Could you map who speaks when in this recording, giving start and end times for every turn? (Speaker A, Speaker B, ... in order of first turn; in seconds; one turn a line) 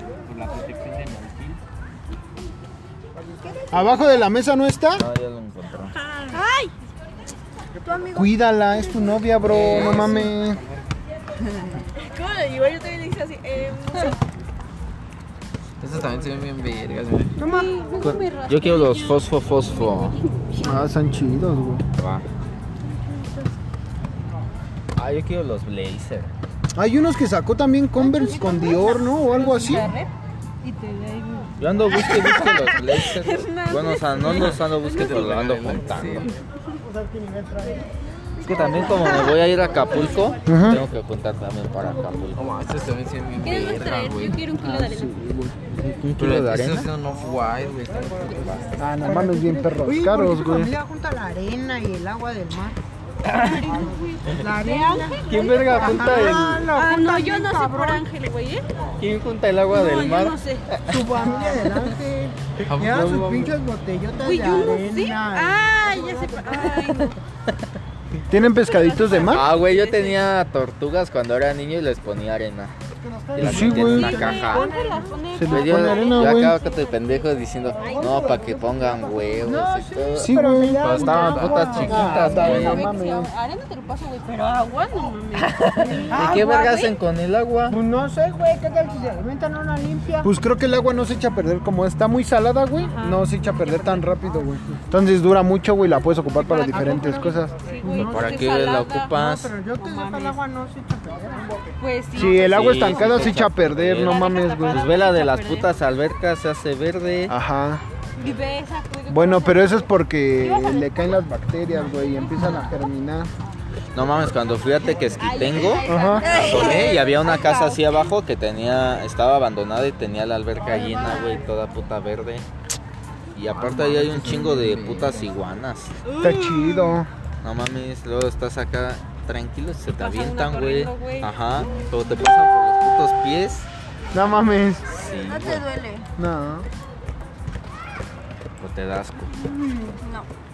Speaker A: 0.3-1.5
Speaker B: 3.4-4.2
Speaker C: 3.7-5.1
Speaker D: 5.0-5.9
Speaker B: 6.3-6.7
Speaker B: 7.8-9.1
Speaker C: 8.1-10.6
Speaker A: 9.4-10.3
Speaker D: 9.5-10.1
Speaker B: 12.0-14.2
Speaker A: 15.8-17.3
Speaker E: 17.4-20.8
Speaker F: 17.4-17.7
Speaker D: 18.0-20.2
Speaker C: 20.6-21.8
Speaker D: 22.0-22.2
Speaker D: 24.9-26.3
Speaker C: 26.7-29.9
Speaker E: 28.0-30.1
Speaker E: 30.6-35.4
Speaker D: 31.6-36.3
Speaker A: 34.2-36.3
Speaker D: 38.4-42.4
Speaker E: 38.8-39.4
Speaker C: 40.5-40.8
Speaker A: 42.4-44.4
Speaker E: 43.4-45.3
Speaker C: 44.6-45.5
Speaker D: 46.0-46.9
Speaker A: 46.2-48.6
Speaker C: 48.8-50.7
Speaker F: 49.0-52.8
Speaker E: 53.3-58.6
Speaker F: 54.4-58.0
Speaker D: 55.3-56.7
Speaker D: 59.0-61.5
Speaker E: 59.7-60.7
Speaker F: 60.9-66.6
Speaker A: 62.7-63.5
Speaker E: 64.2-67.2
Speaker C: 68.3-69.5
Speaker E: 68.6-70.3
Speaker D: 69.1-72.7
Speaker F: 73.0-75.1
Speaker D: 73.3-74.8
Speaker C: 73.4-74.3
Speaker E: 73.8-77.1
Speaker C: 75.3-76.5
Speaker D: 75.5-80.3
Speaker E: 77.8-78.9
Speaker F: 79.4-82.5
Speaker C: 80.2-81.0
Speaker A: 80.8-82.7
Speaker D: 80.8-82.9
Speaker C: 81.8-83.3
Speaker E: 81.9-87.0
Speaker D: 85.6-87.8
Speaker F: 86.0-86.6
Speaker F: 87.7-90.3
Speaker C: 90.2-97.5
Speaker E: 92.8-94.1
Speaker E: 96.4-99.2
Speaker F: 96.7-98.5
Speaker D: 97.9-99.5
Speaker F: 99.1-101.5
Speaker E: 99.8-100.4
Speaker E: 101.8-105.7
Speaker C: 102.1-104.9
Speaker D: 102.2-107.3
Speaker C: 107.3-107.8
Speaker E: 108.2-111.0
Speaker C: 109.1-113.3
Speaker E: 112.2-112.6
Speaker D: 113.9-122.5
Speaker E: 115.1-118.1
Speaker C: 115.8-116.2
Speaker B: 116.1-117.0
Speaker E: 120.7-121.4
Speaker D: 123.3-126.0
Speaker A: 123.5-125.3
Speaker E: 126.1-127.0
Speaker C: 126.2-127.1
Speaker D: 127.4-133.7
Speaker E: 130.0-131.9
Speaker C: 134.1-134.9
Speaker D: 134.9-135.6
Speaker B: 135.1-136.1
Speaker C: 136.2-136.7
Speaker D: 138.6-139.3
Speaker B: 140.0-140.3